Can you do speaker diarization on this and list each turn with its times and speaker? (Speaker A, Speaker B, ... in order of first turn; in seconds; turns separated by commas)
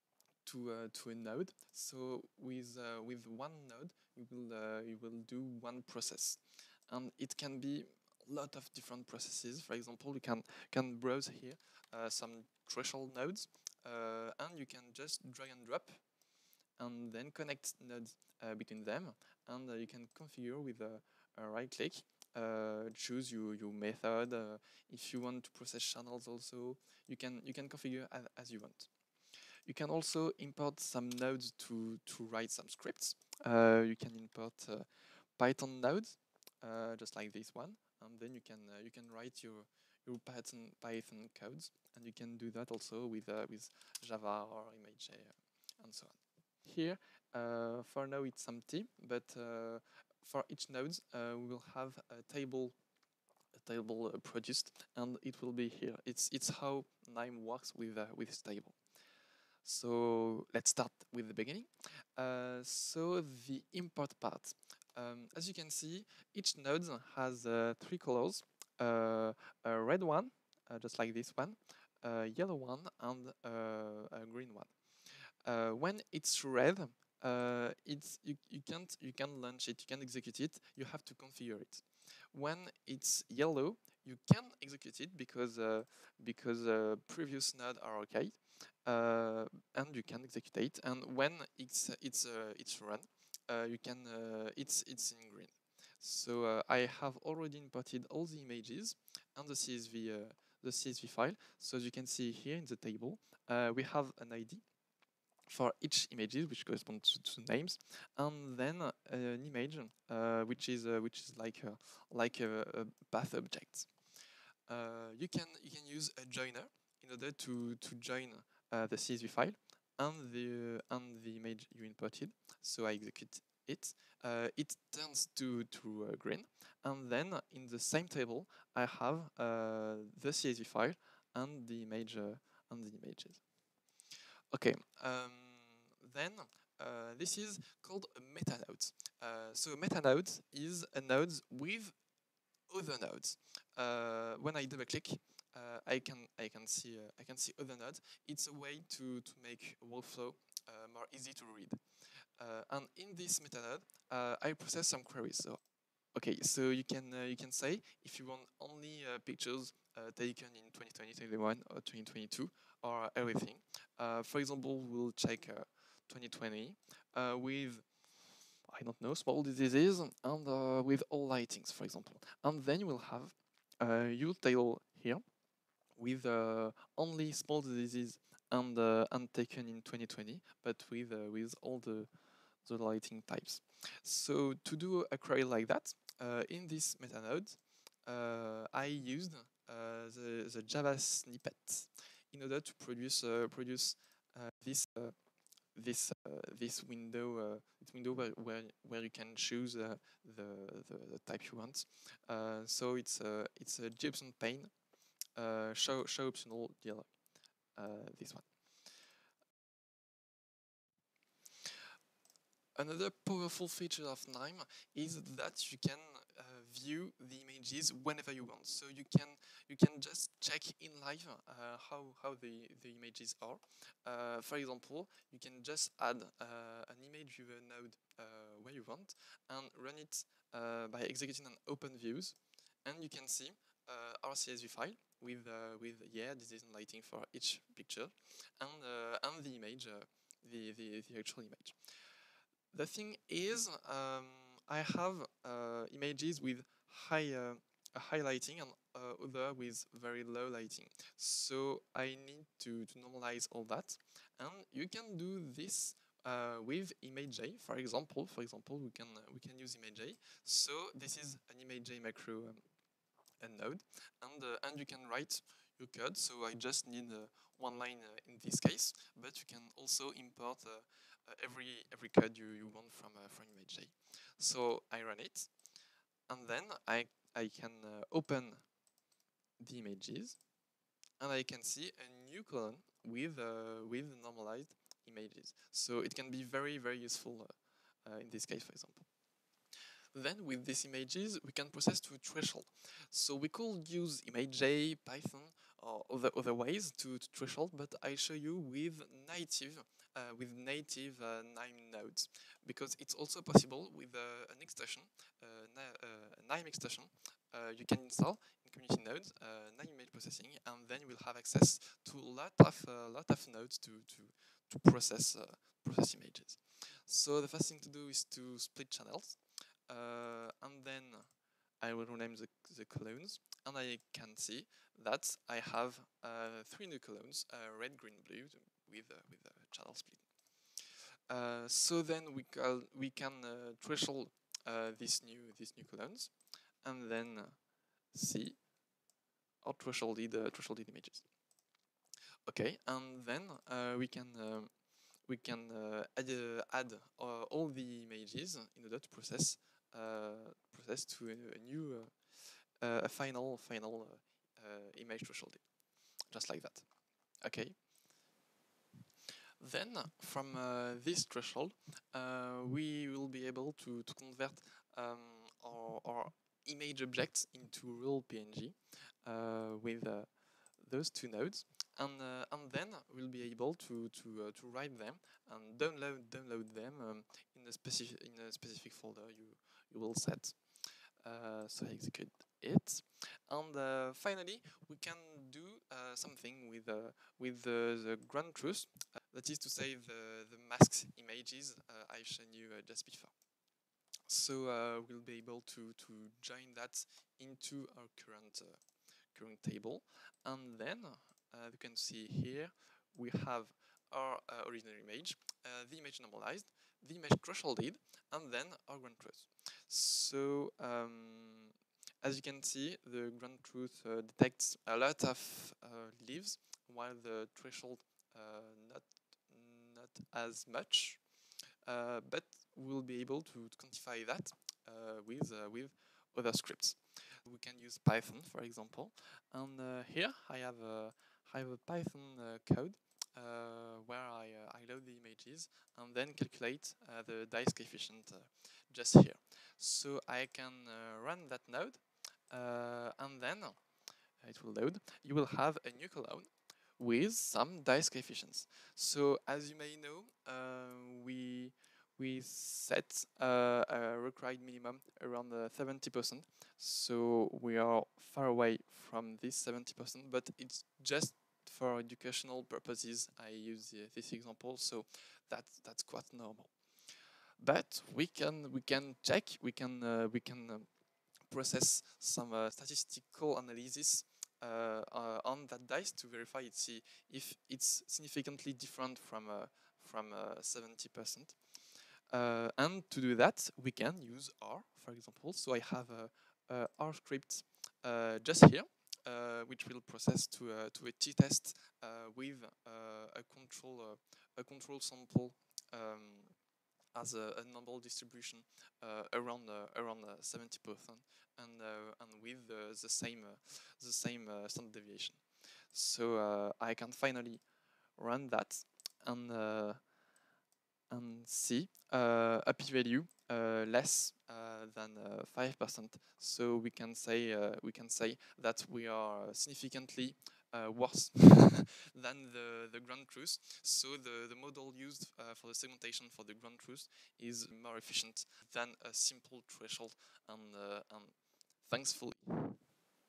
Speaker A: 0.5-16.0, Speaker A: 16.8-28.9, Speaker A: 29.7-52.8, Speaker A: 53.5-58.8, Speaker A: 59.6-74.7, Speaker A: 75.5-104.6, Speaker A: 105.5-113.9, Speaker A: 114.7-133.4, Speaker A: 134.5-141.9, Speaker A: 142.7-151.8, Speaker A: 152.4-155.6, Speaker A: 156.2-167.9, Speaker A: 168.7-175.2, Speaker A: 176.0-182.1, Speaker A: 182.7-195.2, Speaker A: 195.8-204.7, Speaker A: 205.4-207.1, Speaker A: 207.8-208.5, Speaker A: 212.8-241.8, Speaker A: 242.7-262.6, Speaker A: 263.4-275.5, Speaker A: 276.3-278.6, Speaker A: 279.6-280.4, Speaker A: 281.2-287.5, Speaker A: 288.1-289.1, Speaker A: 290.1-321.3, Speaker A: 321.8-330.2, Speaker A: 331.3-336.3, Speaker A: 336.8-337.6, Speaker A: 338.1-338.6, Speaker A: 339.6-341.2, Speaker A: 342.5-344.7, Speaker A: 345.3-352.1, Speaker A: 352.8-355.6, Speaker A: 356.3-356.9, Speaker A: 357.4-357.8, Speaker A: 359.6-370.3, Speaker A: 370.8-380.6, Speaker A: 381.2-393.3, Speaker A: 394.3-398.8, Speaker A: 399.3-421.2, Speaker A: 421.9-443.8, Speaker A: 444.4-466.7, Speaker A: 467.6-470.9, Speaker A: 471.5-481.6, Speaker A: 482.3-496.6, Speaker A: 497.1-505.4, Speaker A: 505.9-507.6, Speaker A: 508.2-510.0, Speaker A: 511.1-531.3, Speaker A: 531.9-532.8